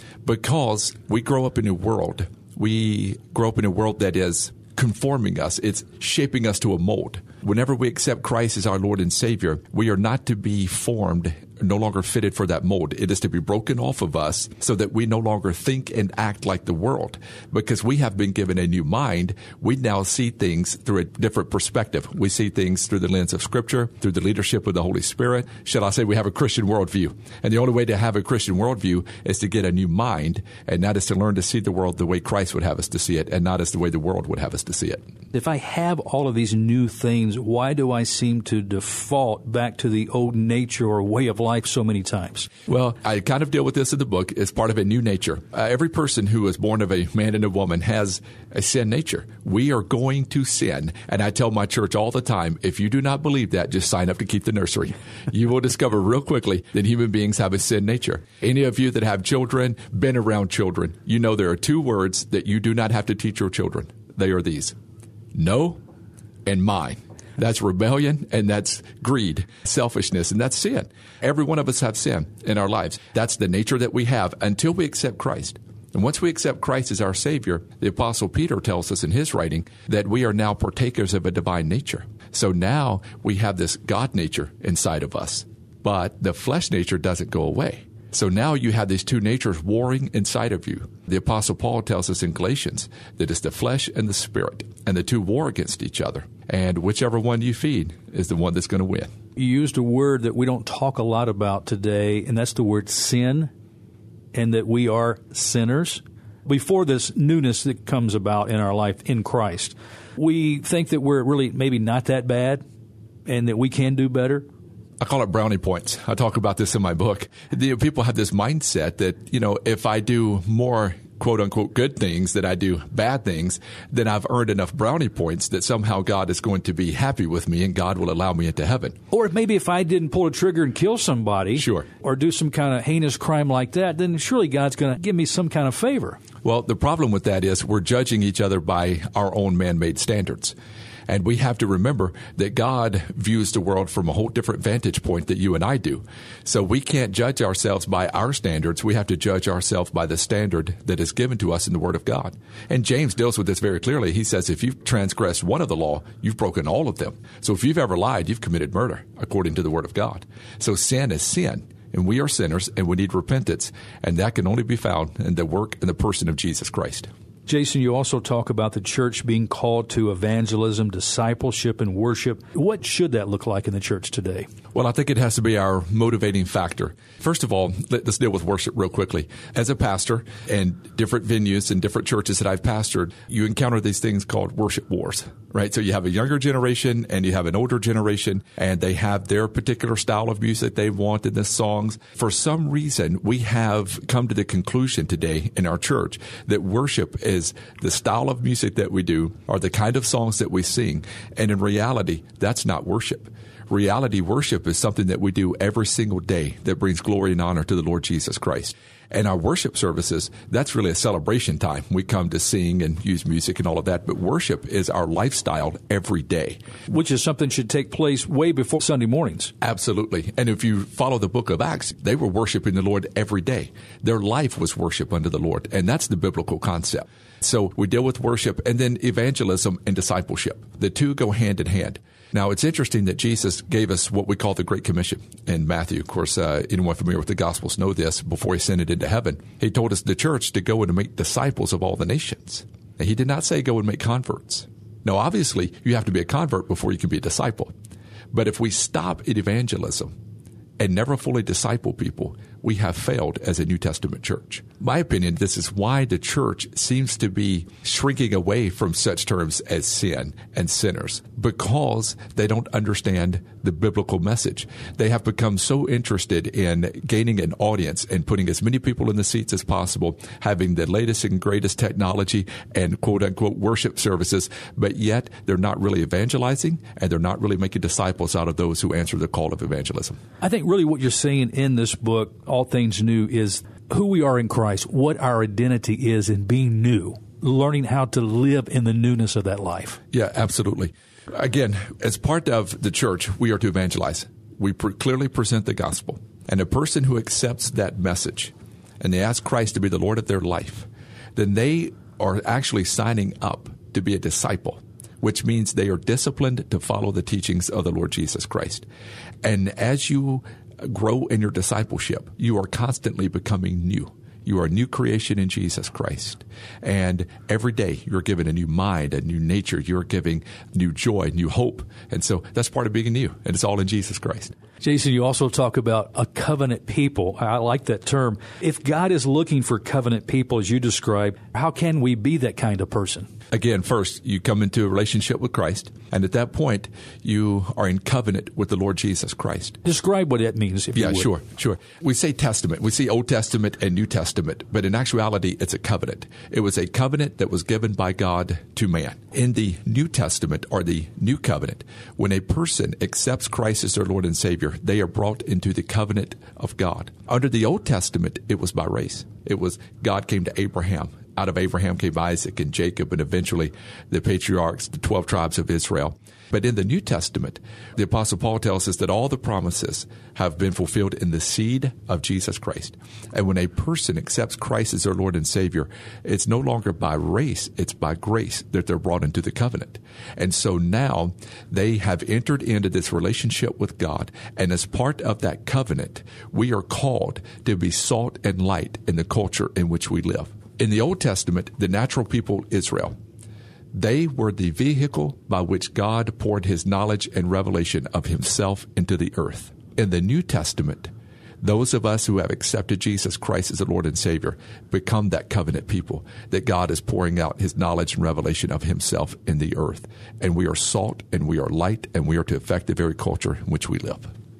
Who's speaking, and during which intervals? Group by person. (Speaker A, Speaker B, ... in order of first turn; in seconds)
Speaker A: 0.2-35.1, 42.7-64.8, 65.3-65.8, 66.5-99.1, 115.0-129.0, 131.5-131.9, 136.4-140.6, 141.1-167.1, 174.7-216.6, 219.6-247.7, 248.3-250.1, 250.8-280.2, 290.1-308.9, 309.4-324.5, 333.5-339.8, 340.9-393.2, 393.9-401.1, 401.6-414.3
Speaker B: 35.3-42.5, 99.4-103.5, 104.3-112.6, 113.3-114.5, 129.1-136.2, 167.5-174.5, 216.9-219.5, 280.4-290.0, 324.8-333.3, 339.8-341.3